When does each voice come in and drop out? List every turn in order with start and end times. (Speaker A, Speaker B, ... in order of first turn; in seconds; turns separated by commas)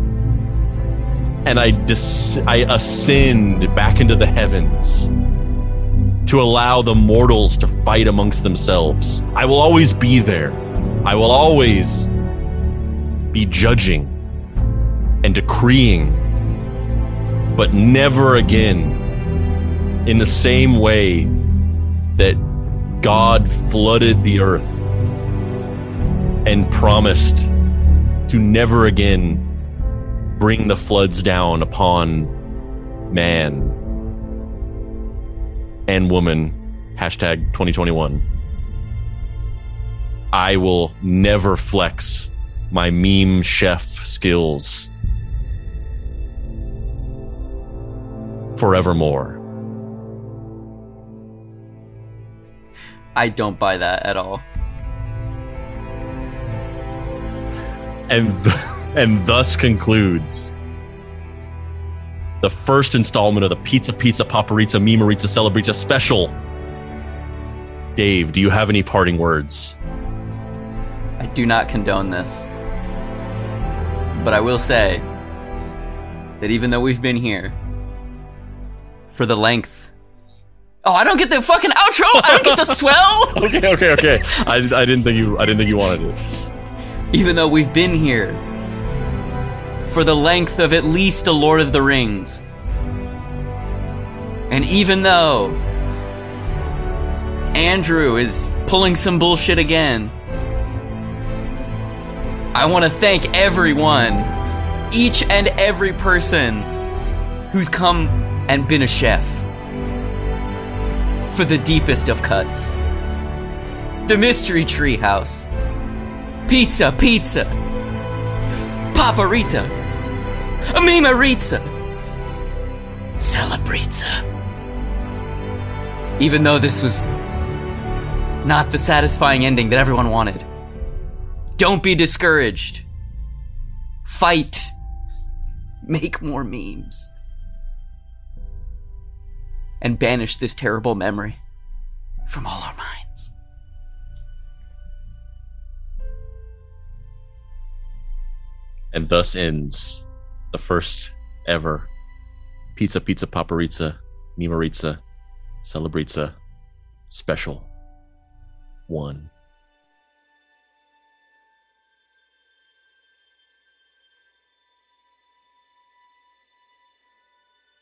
Speaker A: 1.4-5.1, Speaker A: 6.2-12.1, Speaker A: 13.3-14.1, Speaker A: 15.2-16.2, Speaker A: 17.5-19.0, Speaker A: 20.0-21.3, Speaker A: 22.1-22.4, Speaker A: 23.0-24.9, Speaker A: 26.4-27.5, Speaker A: 28.3-29.4, Speaker A: 30.4-32.3, Speaker A: 33.1-33.8, Speaker A: 35.9-38.2, Speaker A: 40.3-44.9, Speaker A: 48.5-49.4, Speaker B: 53.1-54.4, Speaker A: 58.1-60.5, Speaker A: 62.4-66.3, Speaker A: 68.0-69.8, Speaker B: 71.2-72.5, Speaker B: 74.1-75.0, Speaker B: 76.4-77.6, Speaker B: 79.1-79.9, Speaker B: 80.8-84.3, Speaker A: 82.2-86.3, Speaker B: 87.1-88.4, Speaker B: 89.8-92.4, Speaker B: 94.5-95.6, Speaker B: 97.5-100.1, Speaker B: 102.5-104.3, Speaker B: 104.9-106.7, Speaker B: 107.5-109.5, Speaker B: 111.2-112.7, Speaker B: 114.0-115.5, Speaker B: 116.5-117.5, Speaker B: 118.9-119.8, Speaker B: 120.7-121.7, Speaker B: 123.2-124.2, Speaker B: 126.2-127.1, Speaker B: 128.4-130.5, Speaker B: 131.6-132.8, Speaker B: 134.0-134.7, Speaker B: 135.8-137.1, Speaker B: 139.8-141.4, Speaker B: 142.3-143.3, Speaker A: 148.9-151.9, Speaker A: 152.8-155.0, Speaker A: 155.6-156.4, Speaker A: 157.1-157.7, Speaker A: 158.9-159.3